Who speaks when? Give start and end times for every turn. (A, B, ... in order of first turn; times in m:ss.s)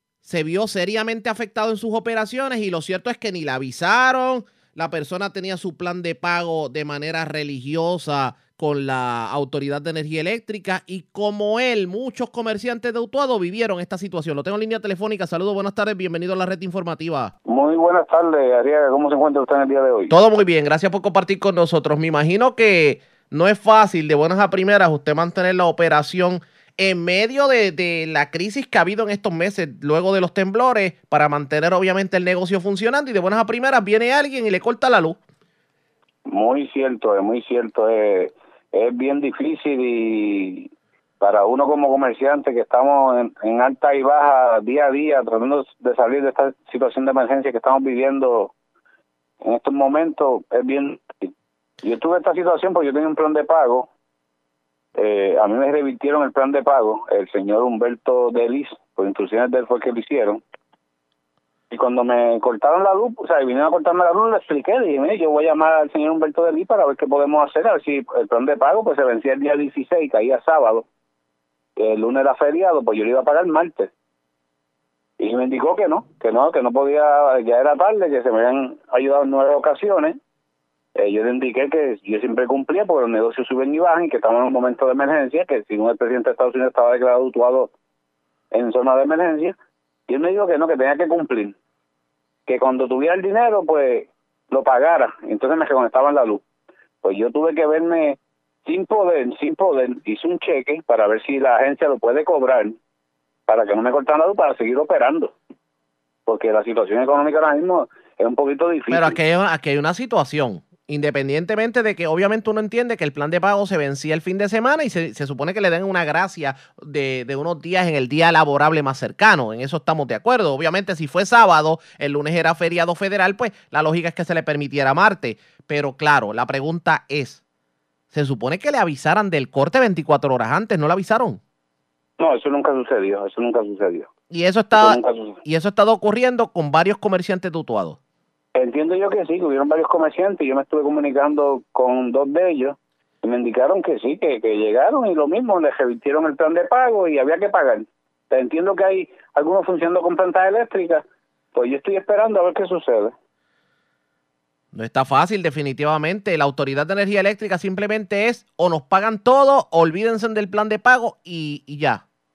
0:00.2-0:17.3 A
0:17.5-0:20.1 B
0:20.1-0:35.2 A
0:36.3-0:40.7 B
0:41.2-0:48.5 B
0:49.4-0:51.3 B
0:51.8-0:53.9 B
0:55.0-1:00.4 B
1:01.7-1:10.8 B
1:11.8-1:13.9 B
1:15.2-1:20.2 B
1:21.0-1:27.7 B
1:28.5-1:29.6 B
1:30.1-1:31.5 B
1:32.5-1:36.4 B
1:37.0-1:42.8 B
1:43.5-1:45.3 B
1:46.3-1:49.2 B
1:48.9-2:07.4 A
2:08.1-2:11.4 A
2:12.2-2:14.1 B
2:14.3-2:18.0 A
2:14.7-2:15.4 B
2:18.6-2:33.1 B
2:34.7-2:42.0 A